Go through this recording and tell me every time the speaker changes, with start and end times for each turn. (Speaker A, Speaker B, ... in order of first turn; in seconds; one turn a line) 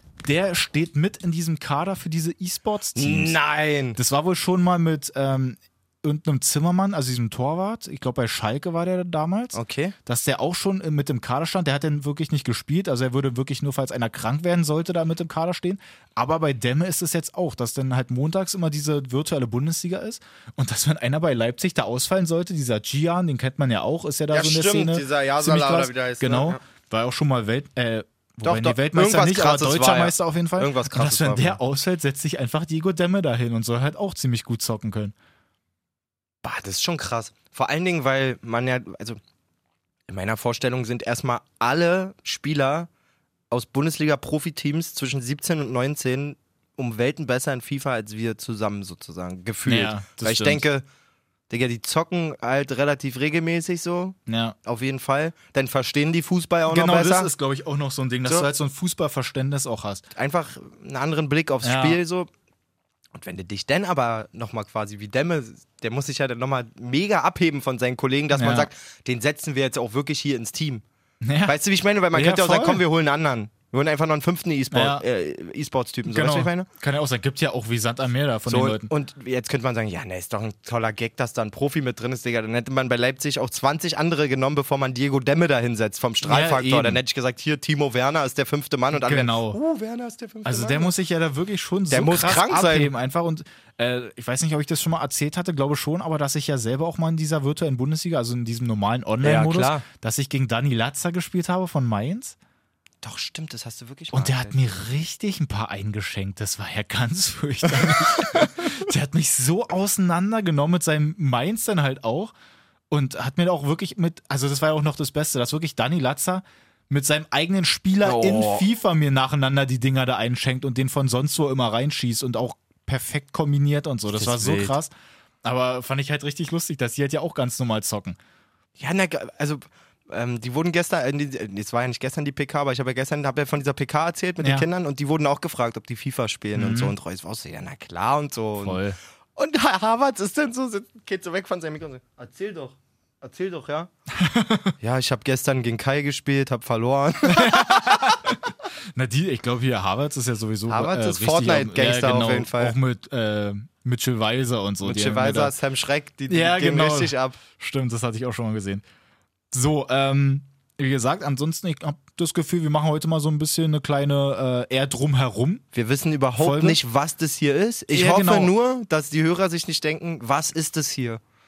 Speaker A: 0.2-3.4
Speaker B: 3.0-4.0
Speaker A: 4.0-35.1
Speaker B: 9.5-10.0
Speaker B: 24.3-26.6
Speaker B: 28.4-31.6
Speaker B: 36.4-39.2
Speaker B: 40.1-42.9
Speaker B: 43.5-50.9
Speaker A: 49.6-50.6
Speaker B: 51.5-57.3
Speaker A: 54.3-54.6
Speaker A: 56.7-60.1
Speaker B: 60.1-62.3
Speaker A: 61.6-62.0
Speaker B: 63.2-70.8
Speaker A: 68.3-68.7
Speaker A: 71.2-71.5
Speaker B: 71.5-76.7
Speaker A: 72.1-72.8
Speaker A: 74.7-75.0
Speaker A: 76.1-78.9
Speaker B: 78.5-90.9
Speaker A: 86.2-87.0
Speaker A: 88.9-89.6
Speaker A: 90.5-102.4
Speaker B: 91.9-92.9
Speaker B: 99.2-99.8
Speaker B: 103.0-104.7
Speaker A: 104.1-112.3
Speaker B: 107.9-108.5
Speaker A: 112.9-124.9
Speaker B: 118.0-118.7
Speaker B: 124.1-124.8
Speaker A: 125.4-128.2
Speaker B: 128.8-138.8
Speaker A: 134.4-134.7
Speaker A: 136.6-136.9
Speaker A: 138.6-139.0
Speaker B: 139.4-143.9
Speaker A: 144.2-144.7
Speaker B: 144.8-148.1
Speaker A: 147.3-155.5
Speaker B: 150.7-152.8
Speaker B: 154.8-157.4
Speaker A: 156.3-158.8
Speaker A: 159.5-165.6
Speaker B: 165.7-171.2
Speaker A: 166.4-166.8
Speaker A: 167.9-168.5